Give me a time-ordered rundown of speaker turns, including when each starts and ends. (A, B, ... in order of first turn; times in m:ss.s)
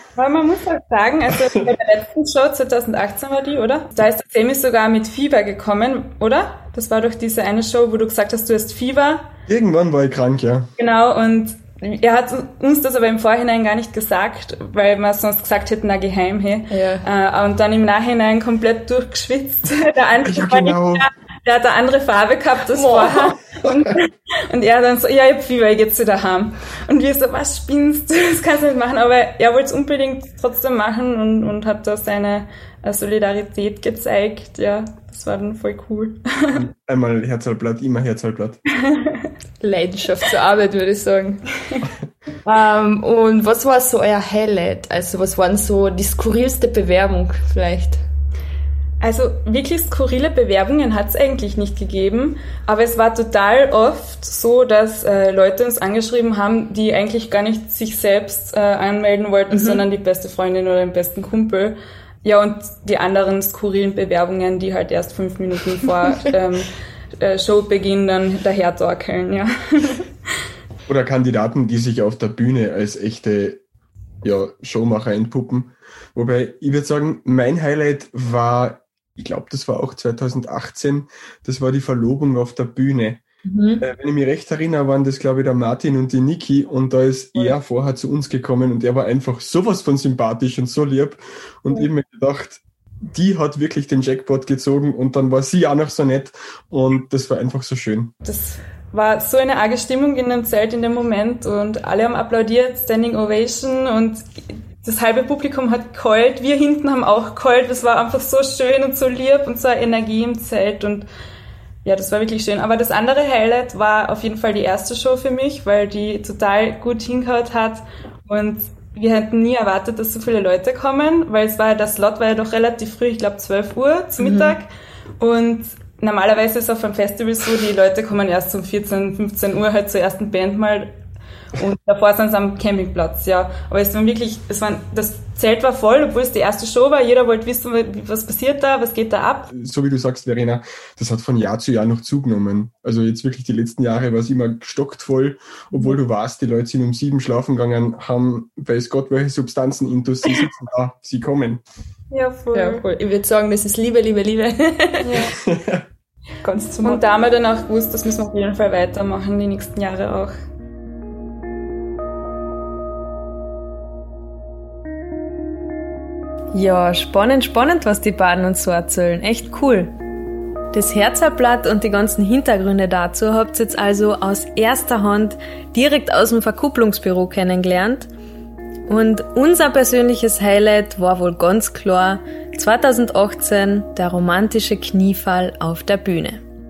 0:00.2-0:09.3 A
0:09.5-0:10.7 B
0:10.8-0:36.6 A
0:16.7-0:17.1 C
0:20.2-0:21.0 B
0:22.7-0:23.4 C
0:36.5-0:38.6 B
0:38.9-0:39.2 A
0:39.6-0:41.4 C
0:42.4-0:48.0 C
0:49.0-1:10.0 A
0:59.5-0:59.9 C
1:10.9-1:13.6 B
1:14.2-1:23.2 B
1:23.5-1:23.8 C
1:23.8-1:32.6 B
1:33.1-1:38.1 B
1:38.2-1:51.1 A
1:51.8-2:04.7 A
2:04.2-2:04.6 C
2:05.2-2:10.9 A
2:11.6-2:19.5 A
2:19.5-2:31.6 B
2:32.1-2:32.8 A
2:32.5-2:35.3 C
2:35.0-2:35.3 A
2:35.4-2:35.8 B
2:36.4-2:37.0 C
2:36.5-2:40.3 A
2:46.5-2:49.9 D
2:50.7-2:58.1 D
2:58.9-3:06.4 D